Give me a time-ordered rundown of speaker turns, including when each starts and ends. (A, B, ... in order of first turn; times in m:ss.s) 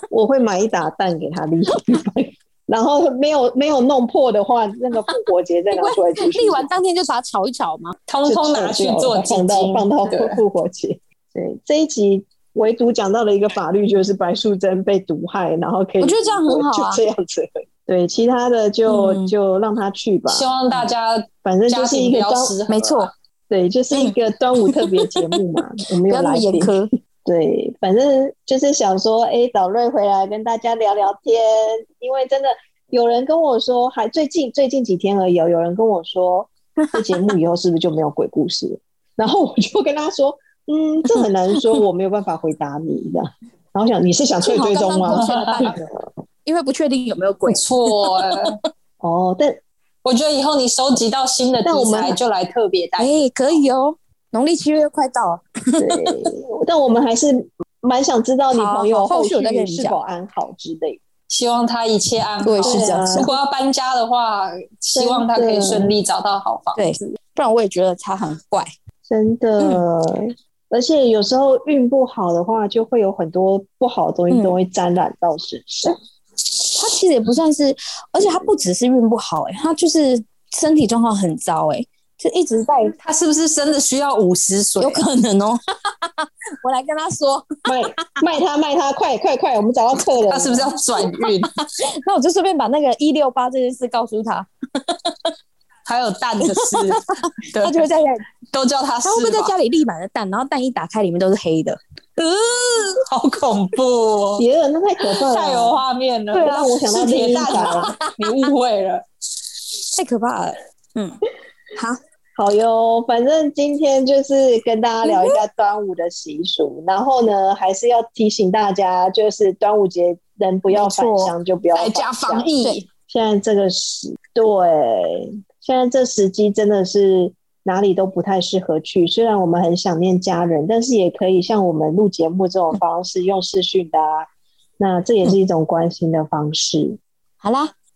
0:00.1-0:06.7 A
0:05.7-0:07.9 B
0:08.1-0:10.4 C
0:08.2-0:20.8 A
0:16.0-0:17.0 B
0:18.9-0:19.3 B
0:20.3-0:23.1 C
0:21.4-0:22.6 A
0:22.7-0:23.1 B
0:23.5-0:45.9 A
0:24.7-0:25.4 B
0:26.1-0:26.9 B
0:36.8-0:37.2 B
0:41.1-0:41.8 B
0:44.5-0:45.8 B
0:45.1-0:45.7 C
0:46.4-0:47.6 B
0:47.5-0:48.6 C
0:48.3-0:48.6 B
0:49.0-0:49.6 A
0:50.0-0:53.6 C
0:51.6-0:52.2 A
0:53.0-0:56.1 B
0:55.8-1:01.0 A
0:58.5-1:00.0 B
1:01.3-1:07.2 C
1:02.4-1:03.3 B
1:02.6-1:03.3 A
1:04.9-1:05.9 A
1:06.7-1:08.7 B
1:09.1-1:16.0 A
1:14.3-1:14.6 B
1:16.7-1:22.9 B
1:18.2-1:18.5 A
1:23.0-1:25.0 C
1:24.8-1:28.1 B
1:27.6-1:30.7 A
1:30.3-1:31.5 C
1:31.0-1:35.3 B
1:35.8-1:37.8 C
1:36.4-1:38.2 B
1:38.5-1:39.5 C
1:39.0-1:43.0 B
1:42.9-1:44.4 C
1:44.4-1:45.8 A
1:45.1-1:49.0 C
1:46.3-1:46.7 B
1:46.4-1:48.0 A
1:47.5-1:48.1 B
1:49.9-1:51.2 B
1:52.4-2:02.5 A
1:55.0-1:55.4 B
2:00.7-2:01.3 B
2:01.7-2:02.9 C
2:03.1-2:17.0 A
2:17.4-2:17.7 B